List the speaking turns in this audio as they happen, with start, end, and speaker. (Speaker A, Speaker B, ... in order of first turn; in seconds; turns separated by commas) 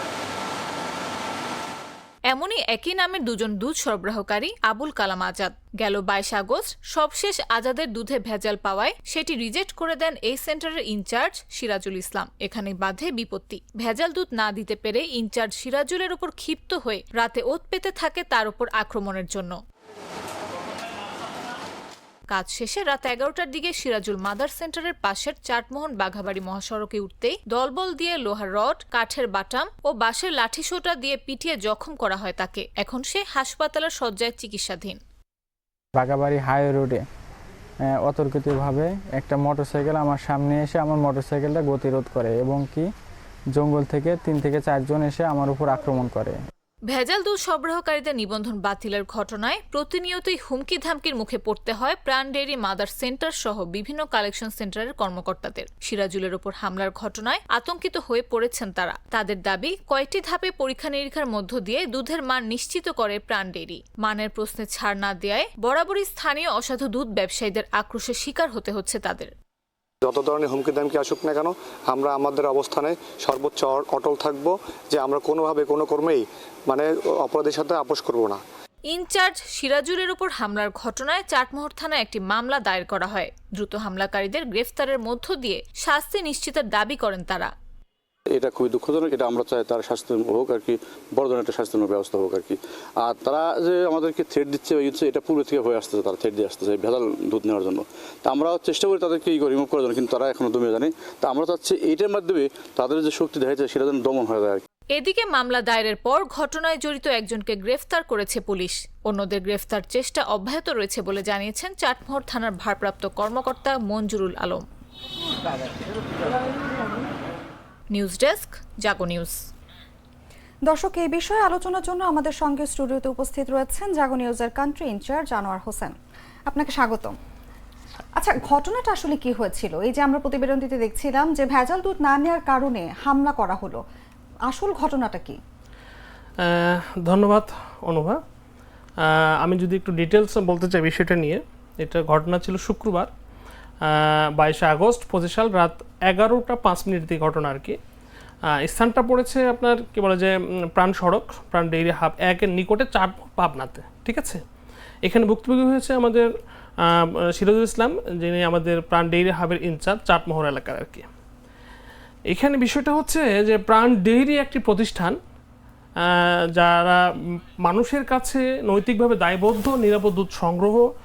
Speaker A: 2.3-19.6, Speaker A: 22.3-35.0, Speaker B: 36.0-37.0, Speaker B: 37.9-42.9, Speaker B: 43.5-46.4, Speaker A: 46.9-69.3, Speaker C: 70.0-78.4, Speaker A: 78.9-87.5, Speaker D: 88.3-104.6, Speaker A: 104.9-114.6, Speaker A: 117.9-119.4, Speaker E: 120.6-126.0, Speaker E: 126.5-127.2, Speaker E: 128.2-133.8, Speaker E: 134.5-135.4, Speaker F: 136.4-138.2, Speaker F: 139.0-143.1, Speaker F: 143.8-147.8, Speaker F: 148.4-154.4, Speaker F: 155.0-161.1, Speaker F: 162.3-165.2, Speaker F: 166.0-170.8